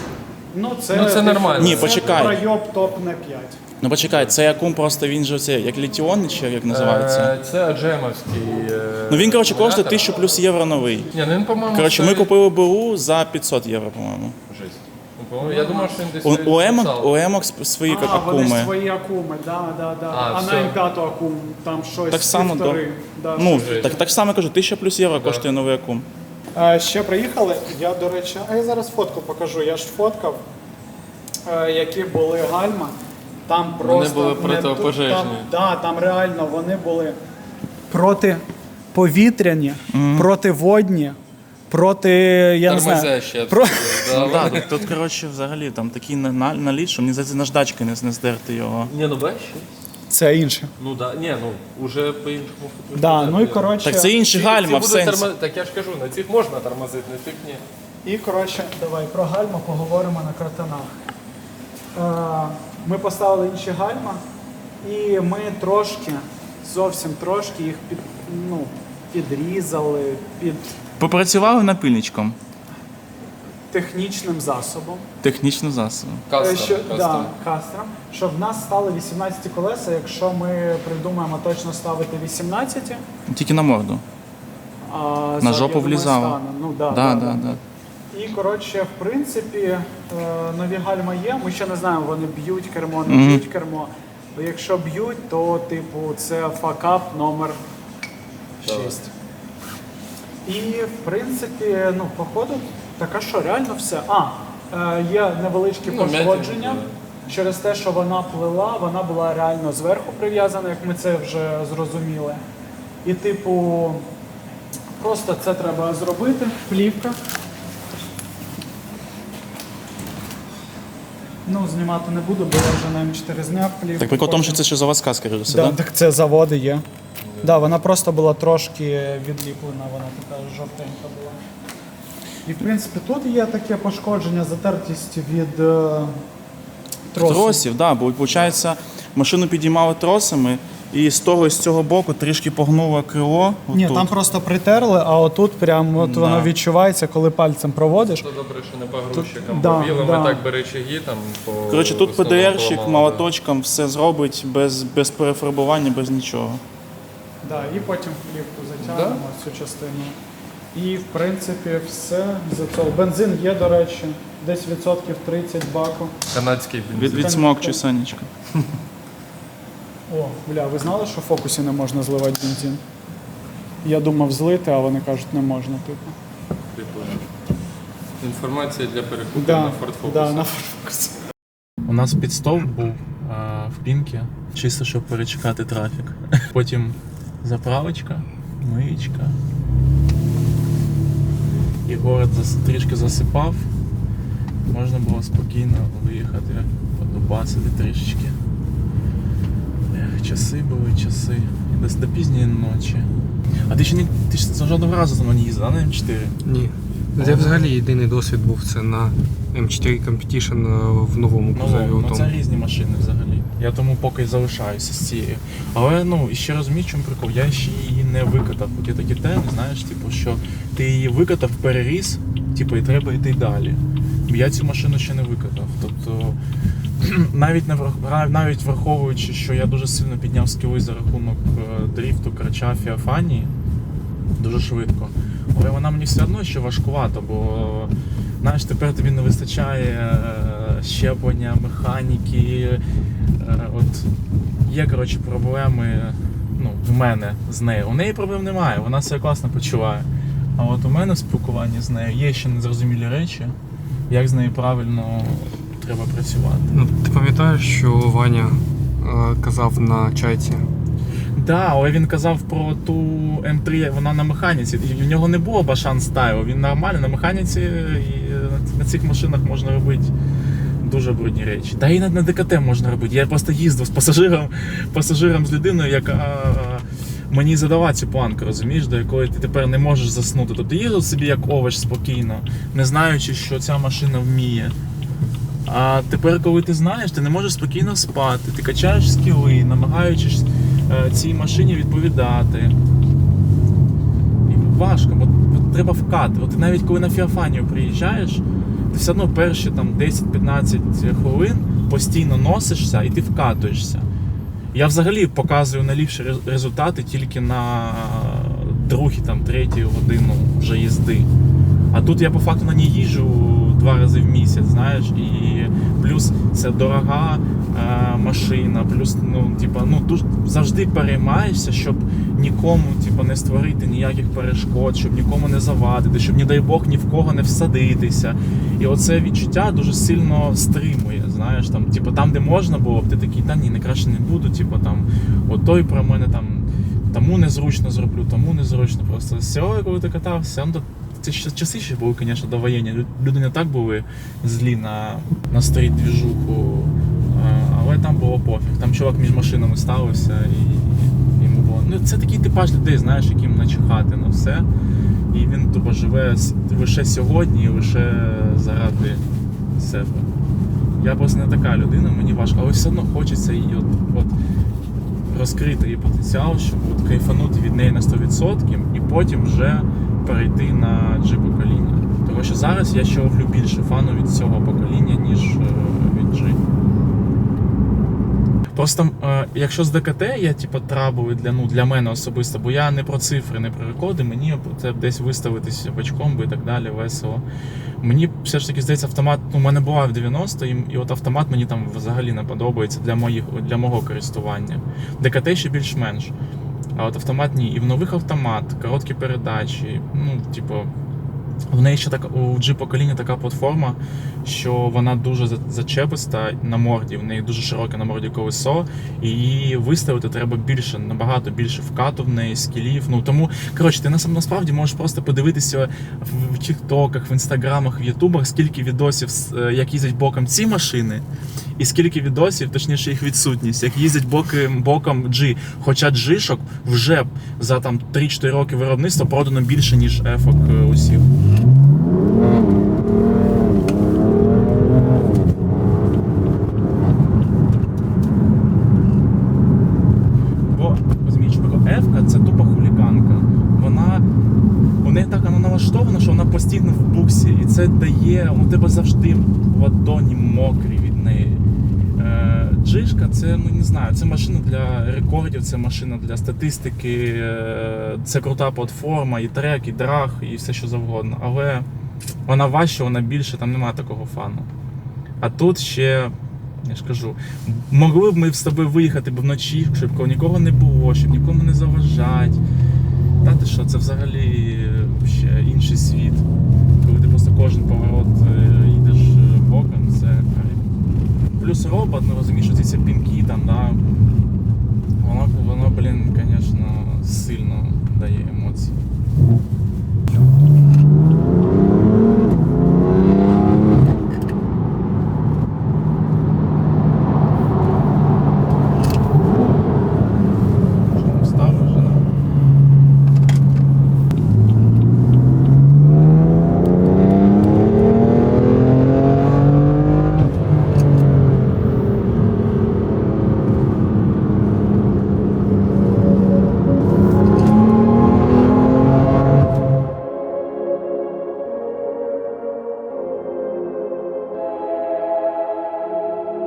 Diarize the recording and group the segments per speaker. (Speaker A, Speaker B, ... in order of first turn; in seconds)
Speaker A: 0.5-3.6, 15.4-16.0, 17.9-24.0, 26.6-30.4, 31.5-33.0, 33.5-37.2, 37.9-41.2, 41.7-44.5, 50.1-50.7, 52.9-54.1, 58.0-60.9, 62.0-64.2, 64.8-70.7, 73.7-75.0, 76.4-83.0, 84.9-87.6, 88.1-97.6, 98.6-99.1, 100.5-112.4, 113.0-114.1, 115.0-117.2, 121.5-124.6, 125.5-126.8, 127.4-131.4, 132.4-136.2, 137.1-137.6, 143.7-148.2, 149.1-150.4, 157.4-160.2, 160.7-166.1, 167.1-167.8, 170.1-172.8, 173.8-176.2, 179.3-181.2
Speaker B: 0.9-2.4, 6.7-10.1, 11.1-12.3, 14.5-17.1, 20.1-20.8, 23.4-23.9, 25.2-25.4, 33.8-35.5, 42.7-44.9, 48.9-49.7, 50.8-57.6, 76.3-77.3, 98.6-99.0, 105.8-106.9, 127.3-127.5, 148.1-153.3, 158.8-159.2, 166.3-167.4, 176.7-177.2, 178.2-180.5
Speaker C: 1.6-2.4, 3.8-7.3, 9.1-11.1, 11.7-14.4, 16.2-18.7, 22.1-22.8, 23.4-26.1, 39.9-40.3, 44.1-48.9, 53.8-55.3, 71.0-72.4, 75.2-76.2, 83.3-84.0, 85.4-87.6, 93.1-93.4, 124.0-125.8, 137.2-144.1, 146.0-146.5, 151.7-156.6, 166.9-168.3, 181.8-189.4, 191.9-193.7, 194.7-198.4, 199.9-203.1, 203.7-206.4, 207.2-207.8, 211.5-226.4, 227.0-233.5, 234.4-242.8, 243.4-244.1, 244.7-253.6, 254.1-256.8, 261.4-270.1, 270.8-284.8, 285.7-292.8, 294.5-304.1, 304.7-311.3, 311.9-354.7, 355.3-359.2, 359.8-360.3, 361.0-364.3, 365.3-376.6, 378.7-387.4, 388.0-396.3, 397.0-400.9, 401.7-421.2, 421.8-431.3, 440.7-444.2, 445.0-451.6, 452.2-461.9, 462.5-464.7, 465.4-472.6, 473.4-476.4, 477.0-480.9, 481.6-484.0, 485.2-489.0, 501.1-502.2
Speaker D: 206.4-212.3, 256.7-260.6